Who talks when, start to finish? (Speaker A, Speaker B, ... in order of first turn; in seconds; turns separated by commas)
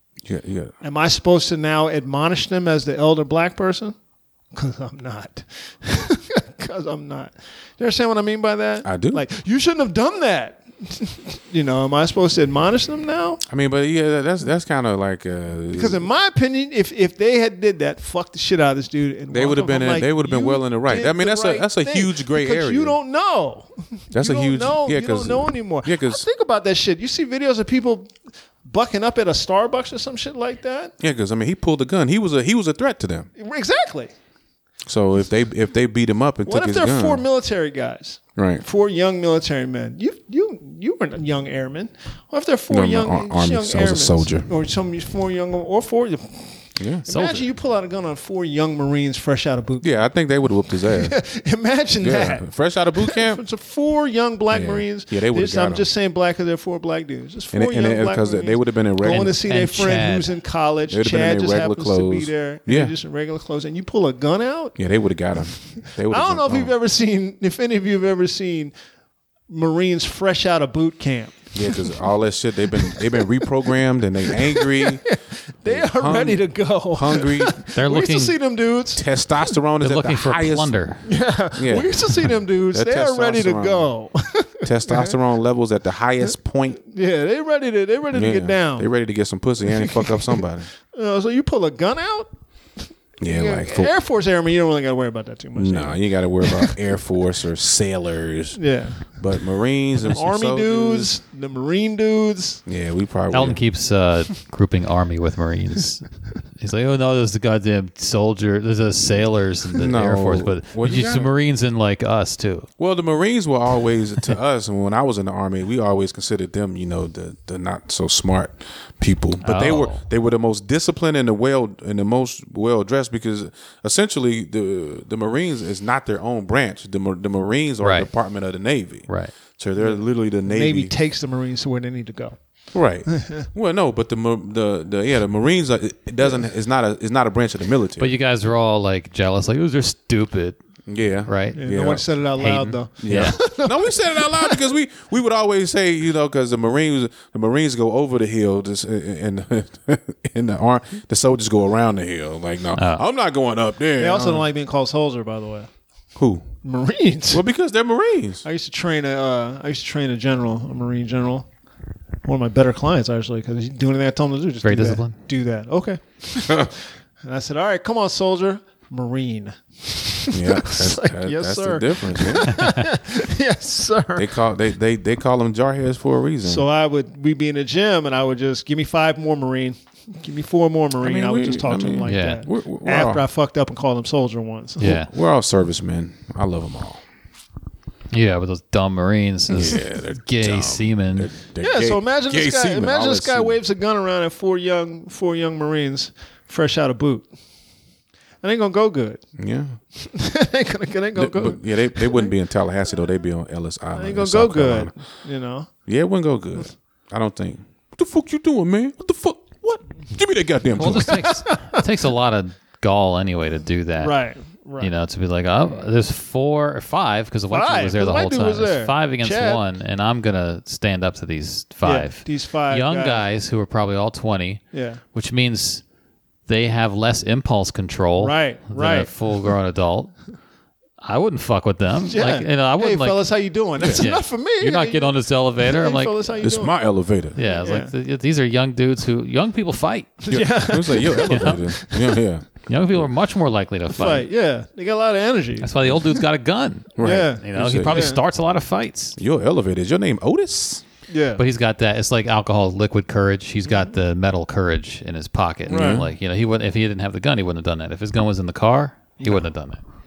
Speaker A: 0.2-0.8, Speaker B: 0.8-4.0, Speaker B: 4.5-13.4, Speaker A: 8.8-9.2, Speaker A: 13.5-16.1, Speaker B: 15.7-28.1, Speaker A: 19.3-23.0, Speaker A: 24.1-26.3, Speaker B: 28.6-30.9, Speaker A: 31.0-33.3, Speaker B: 33.4-34.1, Speaker A: 34.9-37.2, Speaker B: 36.5-49.9, Speaker A: 38.4-38.6, Speaker A: 42.7-44.5, Speaker A: 46.8-47.1, Speaker C: 47.1-47.4, Speaker A: 49.8-51.2, Speaker B: 50.9-52.5, Speaker A: 52.0-53.4, Speaker B: 53.1-64.8, Speaker A: 54.5-55.9, Speaker A: 57.5-59.4, Speaker C: 59.0-60.4, Speaker A: 60.9-62.9, Speaker A: 64.8-66.7, Speaker B: 66.1-68.7, Speaker B: 69.5-71.8, Speaker A: 71.5-75.0, Speaker B: 72.8-73.5, Speaker B: 74.3-79.0, Speaker A: 75.7-77.6, Speaker C: 77.8-78.3, Speaker A: 79.0-80.7, Speaker C: 79.8-81.0, Speaker B: 81.1-85.2, Speaker A: 81.6-83.9, Speaker A: 84.6-86.8, Speaker B: 86.8-88.9, Speaker A: 88.1-90.7, Speaker B: 89.7-90.4, Speaker B: 90.9-92.3, Speaker A: 93.2-93.9, Speaker B: 93.2-96.7, Speaker A: 95.5-101.1, Speaker B: 98.5-99.1, Speaker B: 100.1-102.6, Speaker A: 102.7-103.6, Speaker C: 103.3-112.7, Speaker A: 109.7-111.3, Speaker A: 112.8-130.9, Speaker C: 119.4-120.0, Speaker C: 127.8-128.1, Speaker C: 129.1-129.3, Speaker B: 129.8-132.4, Speaker A: 132.7-138.1, Speaker B: 133.1-133.4, Speaker C: 138.0-140.6, Speaker A: 140.9-142.1, Speaker C: 141.3-141.7, Speaker B: 141.6-144.6, Speaker C: 142.4-143.4, Speaker A: 143.0-154.4, Speaker C: 152.8-153.0, Speaker B: 154.0-155.7, Speaker A: 156.2-156.5, Speaker B: 156.6-157.4, Speaker A: 157.3-158.4, Speaker B: 158.4-161.5, Speaker B: 162.2-174.3, Speaker C: 164.6-165.2, Speaker A: 170.3-172.6, Speaker A: 174.2-176.7, Speaker B: 176.4-184.9, Speaker A: 181.0-183.3, Speaker C: 182.1-182.4, Speaker C: 184.8-185.1, Speaker A: 184.8-187.0, Speaker C: 188.1-191.3, Speaker A: 189.5-193.6, Speaker B: 191.6-197.3, Speaker B: 198.4-199.2, Speaker A: 199.4-199.8, Speaker B: 200.0-202.3, Speaker A: 201.2-204.9, Speaker B: 203.9-205.7, Speaker A: 205.9-211.3, Speaker C: 210.8-214.2, Speaker B: 210.8-211.8, Speaker B: 214.0-214.9, Speaker C: 214.8-225.8, Speaker B: 217.5-219.6, Speaker B: 221.8-223.2, Speaker B: 224.7-225.0, Speaker C: 226.5-230.2, Speaker B: 228.2-229.1, Speaker C: 231.0-236.4, Speaker B: 232.1-236.9, Speaker A: 233.8-234.0, Speaker A: 236.4-237.4, Speaker C: 237.3-240.4, Speaker B: 237.4-237.9, Speaker B: 240.2-242.2, Speaker A: 240.3-243.0, Speaker C: 241.2-241.7, Speaker C: 242.7-244.3, Speaker B: 243.9-246.2, Speaker C: 245.6-249.2, Speaker A: 247.0-248.2, Speaker B: 247.0-248.2, Speaker A: 249.2-250.8, Speaker B: 251.1-251.4, Speaker C: 251.4-259.8, Speaker B: 255.7-256.1, Speaker A: 255.7-256.1, Speaker B: 259.2-259.5